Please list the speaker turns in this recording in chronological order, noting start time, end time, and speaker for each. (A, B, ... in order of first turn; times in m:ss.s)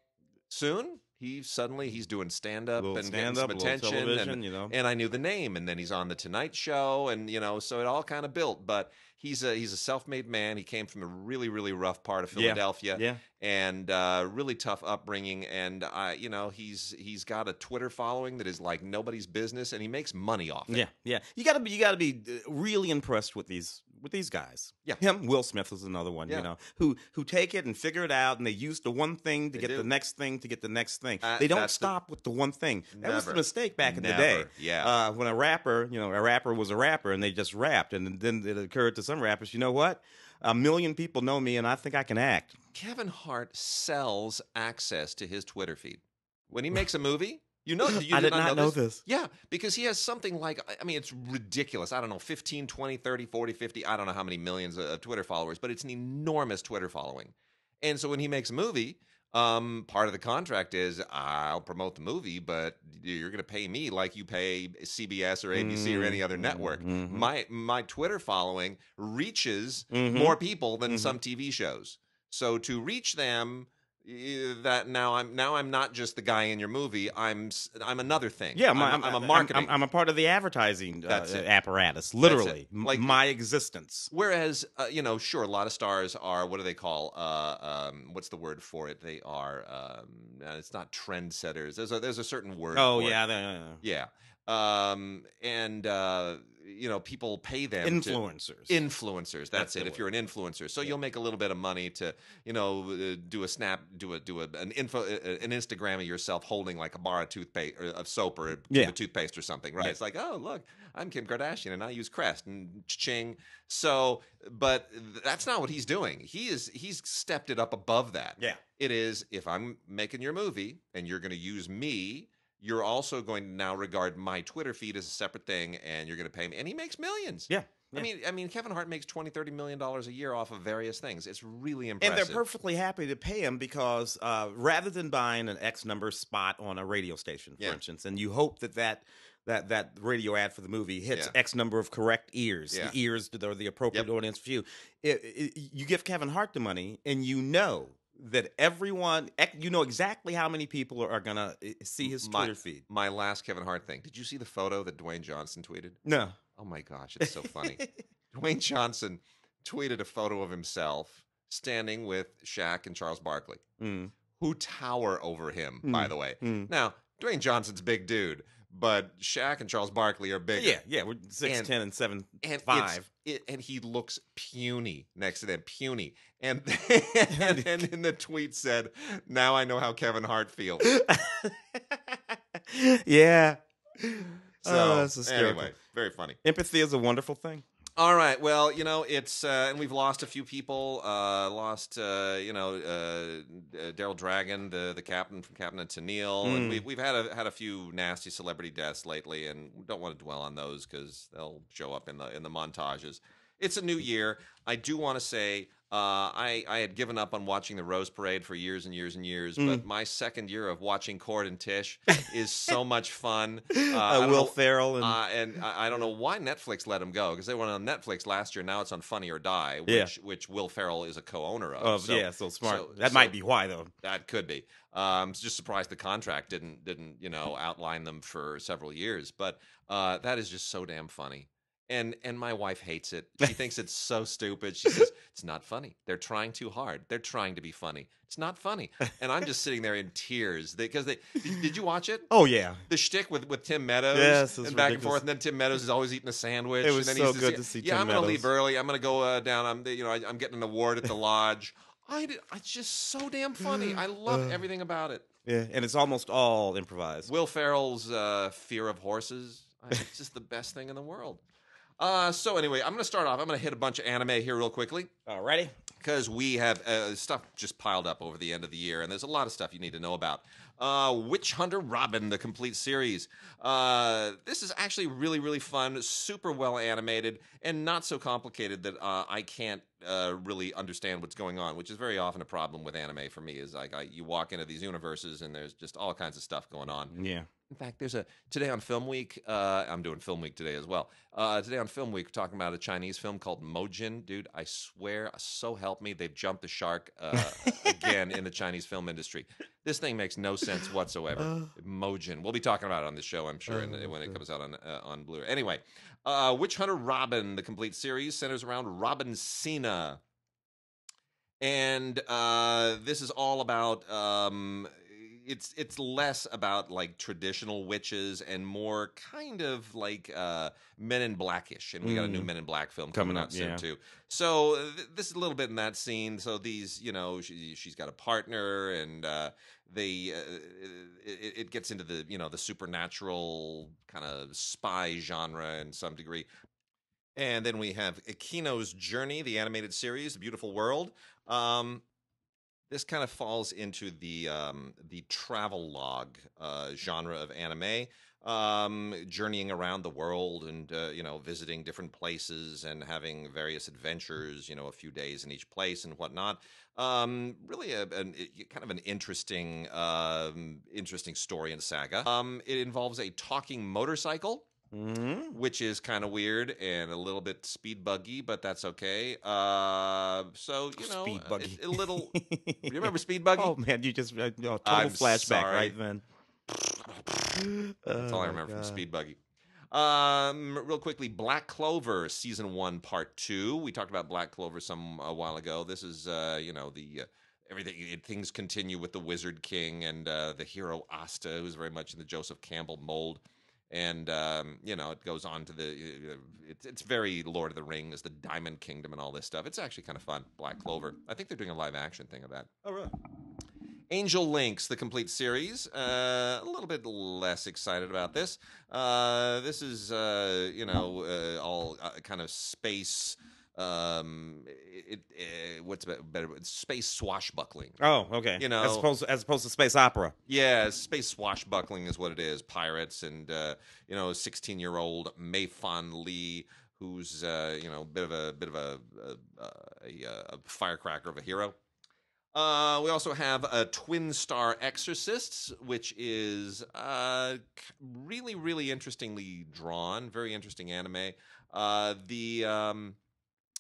0:00.5-0:20.8 A
0:02.8-0:04.7 B
0:12.3-0:13.2 B
0:20.7-0:42.6 B
0:29.5-0:29.9 A
0:31.2-0:31.9 A
0:32.9-0:34.9 A
0:42.7-1:19.8 A
0:47.8-0:49.0 B
1:05.5-1:07.3 B
1:09.9-1:10.4 B
1:10.9-1:11.2 B
1:18.5-1:24.1 B
1:21.1-1:21.4 A
1:22.2-1:23.2 A
1:24.1-1:33.2 A
1:32.7-1:33.8 B
1:33.8-2:12.4 A
1:37.8-1:38.8 B
1:39.5-1:40.0 B
1:48.7-1:49.0 B
2:07.5-2:08.1 B
2:12.0-2:32.8 B
2:32.0-2:36.0 A
2:36.0-2:36.4 B
2:36.6-2:43.6 A
2:37.2-2:37.9 B
2:43.8-2:44.1 B
2:44.4-2:50.8 A
2:45.8-2:46.7 B
2:50.6-2:53.1 B
2:51.4-2:51.7 A
2:52.4-3:00.9 A
2:57.3-2:57.6 B
3:00.8-3:05.7 B
3:04.6-3:06.4 A
3:06.4-3:07.6 B
3:08.0-3:43.3 A
3:16.4-3:16.8 B
3:29.6-3:29.8 B
3:33.7-3:35.2 B
3:39.9-3:40.1 B
3:41.8-3:43.9 B
3:44.0-4:02.3 A
4:02.3-4:02.8 B
4:02.9-4:15.3 A
4:04.1-4:05.2 B
4:06.8-4:08.5 B
4:13.7-4:14.6 B
4:15.4-4:17.3 B
4:17.2-4:21.4 A
4:22.0-4:25.1 A
4:25.3-4:25.7 B
4:26.0-4:47.1 A
4:47.1-4:47.5 B
4:47.7-5:10.2 A
4:57.4-4:58.1 B
5:01.4-5:01.7 B
5:03.7-5:04.4 B
5:11.6-5:36.5 A
5:22.0-5:22.5 B
5:23.1-5:23.8 B
5:37.4-5:42.0 A
5:42.9-6:04.7 A
6:04.9-6:05.6 B
6:05.5-6:13.8 A
6:11.0-6:16.2 B
6:14.8-6:16.0 A
6:16.7-6:19.4 A
6:17.6-6:19.0 B
6:19.9-6:42.7 A
6:42.8-6:43.1 B
6:44.1-6:58.0 A
6:58.0-7:00.4 B
6:58.6-6:59.1 A
7:00.5-7:11.8 A
7:12.5-7:23.2 A